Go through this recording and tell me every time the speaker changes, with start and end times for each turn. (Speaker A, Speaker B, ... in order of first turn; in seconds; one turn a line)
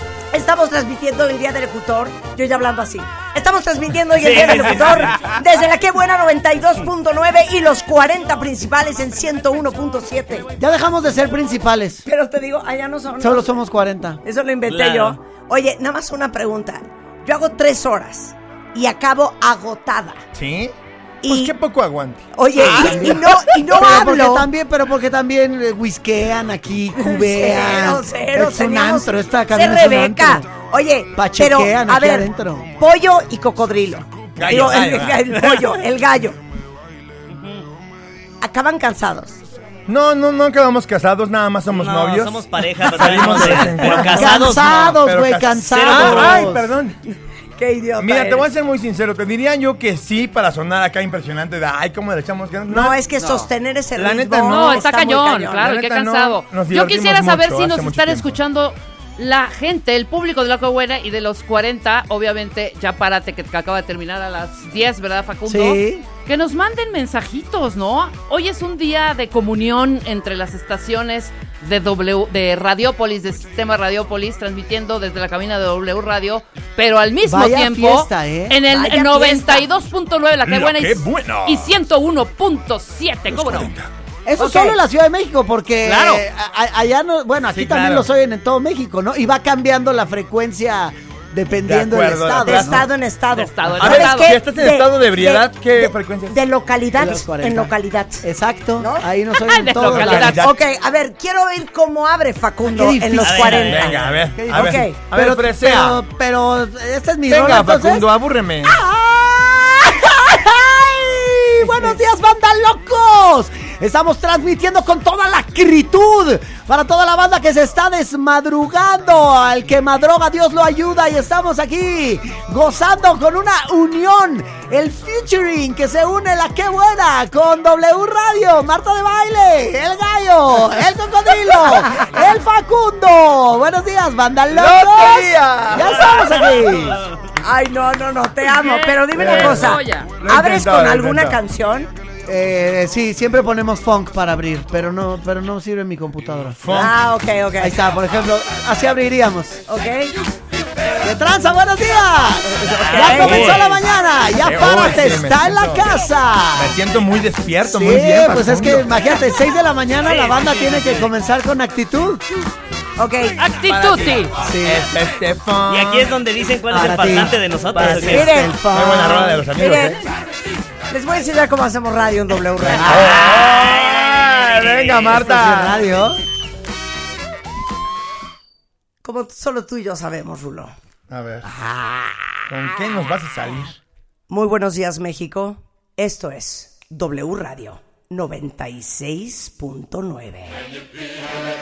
Speaker A: 0.3-10.5
Speaker B: 4.2-5.3
Speaker C: 10.6-12.1
Speaker A: 12.1-13.5
Speaker C: 13.2-14.2
Speaker A: 14.2-20.2
Speaker B: 14.7-15.2
Speaker D: 20.3-20.7
Speaker A: 21.2-21.5
Speaker D: 21.2-22.2
Speaker A: 22.3-24.5
Speaker C: 22.6-30.5
Speaker A: 27.0-32.3
Speaker C: 31.1-32.7
Speaker A: 32.8-36.4
Speaker D: 34.4-35.4
Speaker A: 38.4-39.4
Speaker D: 39.9-47.0
Speaker B: 41.7-44.8
Speaker C: 44.1-46.7
Speaker B: 45.7-46.5
Speaker A: 47.6-48.5
Speaker D: 48.0-53.3
Speaker A: 52.7-55.7
Speaker D: 53.9-54.9
Speaker E: 54.5-83.7
Speaker D: 55.6-58.4
Speaker C: 65.5-66.0
Speaker C: 77.2-78.6
Speaker A: 78.7-79.7
Speaker D: 80.4-81.7
Speaker D: 83.3-83.9
Speaker C: 84.2-92.8
Speaker A: 84.4-84.8
Speaker E: 85.8-86.2
Speaker D: 87.5-88.0
Speaker D: 91.7-92.8
Speaker A: 92.4-98.2
Speaker E: 93.3-94.3
Speaker D: 93.8-96.3
Speaker C: 97.0-100.4
Speaker A: 98.8-99.1
Speaker E: 99.4-100.4
Speaker D: 99.8-100.5
Speaker A: 100.3-105.0
Speaker C: 102.6-108.0
Speaker B: 103.2-104.0
Speaker D: 103.7-106.0
Speaker D: 107.3-108.8
Speaker C: 108.6-137.0
Speaker D: 134.5-136.1
Speaker A: 137.4-141.9
Speaker E: 138.4-140.1
Speaker D: 139.2-141.4
Speaker C: 142.3-146.6
Speaker D: 146.6-146.9
Speaker A: 146.7-147.8
Speaker C: 147.6-149.6
Speaker A: 149.7-150.1
Speaker C: 151.0-156.8
Speaker B: 152.6-153.8
Speaker A: 152.7-153.4
Speaker D: 153.1-153.7
Speaker D: 154.4-155.8
Speaker D: 156.6-158.9
Speaker C: 157.7-162.2
Speaker B: 160.0-161.0
Speaker A: 163.0-163.4
Speaker E: 163.4-164.3
Speaker D: 163.6-166.1
Speaker C: 164.4-164.9
Speaker B: 165.7-168.3
Speaker C: 166.7-169.4
Speaker D: 167.7-170.0
Speaker A: 168.1-170.0
Speaker A: 170.9-173.3
Speaker C: 172.7-173.2
Speaker D: 172.8-175.8
Speaker B: 172.9-175.2
Speaker C: 175.1-176.2
Speaker A: 179.0-180.7
Speaker D: 181.1-181.4
Speaker A: 181.4-183.1
Speaker D: 182.5-183.8
Speaker A: 184.3-190.6